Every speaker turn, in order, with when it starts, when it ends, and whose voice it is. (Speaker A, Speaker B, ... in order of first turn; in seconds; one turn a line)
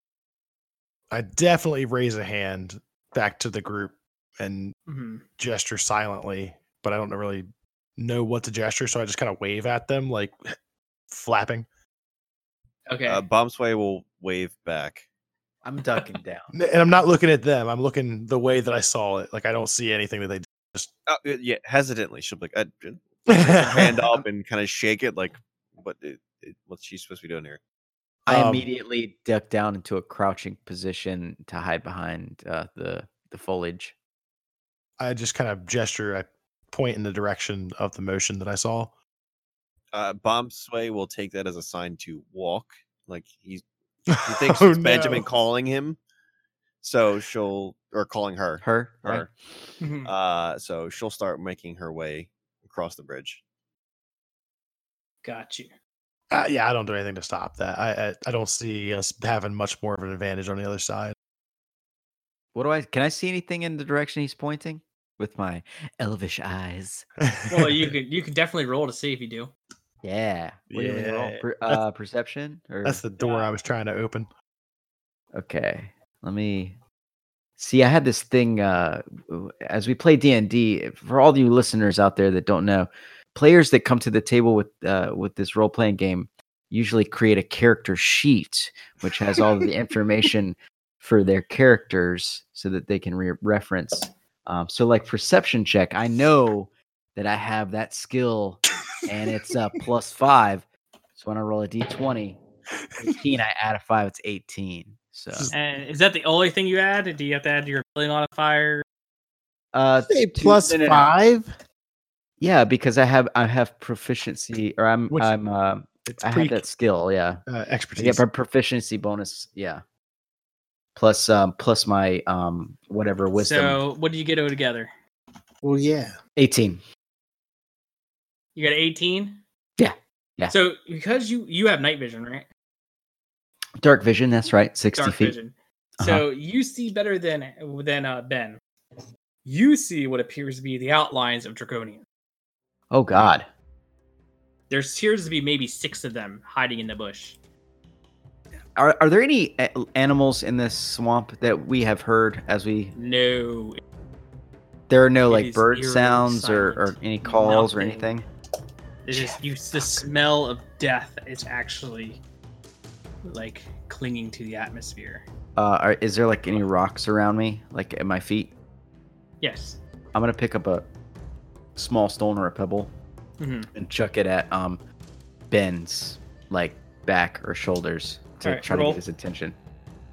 Speaker A: 1.1-4.8
Speaker B: 4.9-5.2
Speaker A: 5.4-10.4
Speaker A: 11.1-11.7
Speaker B: 12.9-13.2
Speaker C: 13.1-15.1
Speaker D: 15.6-16.5
Speaker A: 16.5-20.9
Speaker C: 21.1-27.6
Speaker A: 23.3-24.2
Speaker D: 28.3-34.0
Speaker A: 28.3-28.7
Speaker A: 35.0-38.9
Speaker C: 39.9-43.6
Speaker A: 44.1-45.3
Speaker C: 44.2-46.0
Speaker C: 46.8-49.3
Speaker D: 48.6-49.3
Speaker B: 49.8-50.1
Speaker C: 50.0-53.4
Speaker B: 55.2-55.7
Speaker A: 56.3-61.1
Speaker D: 62.5-67.1
Speaker A: 67.2-67.9
Speaker B: 67.5-69.5
Speaker D: 70.0-73.0
Speaker A: 70.7-71.8
Speaker A: 72.8-74.3
Speaker B: 73.2-73.5
Speaker D: 75.3-76.8
Speaker D: 77.6-102.4
Speaker D: 103.0-105.5
Speaker B: 105.5-108.8
Speaker D: 109.7-111.1
Speaker E: 110.1-111.5
Speaker D: 112.4-117.4
Speaker A: 116.1-116.7
Speaker A: 117.5-118.2
Speaker D: 118.0-119.8
Speaker D: 121.0-123.8
Speaker B: 123.3-124.9
Speaker E: 125.6-126.2
Speaker D: 126.4-126.8
Speaker B: 128.6-129.4
Speaker D: 129.8-130.5
Speaker B: 130.5-132.5
Speaker D: 133.8-135.4
Speaker B: 135.0-138.6
Speaker D: 136.0-136.2
Speaker B: 139.4-142.0
Speaker D: 142.9-143.5
Speaker B: 144.7-147.4
Speaker D: 148.8-152.9
Speaker B: 152.9-153.8
Speaker D: 154.9-158.3
Speaker B: 155.3-158.1
Speaker B: 159.1-162.2
Speaker B: 163.3-165.3
Speaker D: 165.6-168.5
Speaker B: 169.4-169.8
Speaker D: 170.1-170.9
Speaker D: 171.8-172.9
Speaker B: 173.4-173.7
Speaker D: 173.8-174.8
Speaker D: 175.5-179.6
Speaker B: 178.4-179.0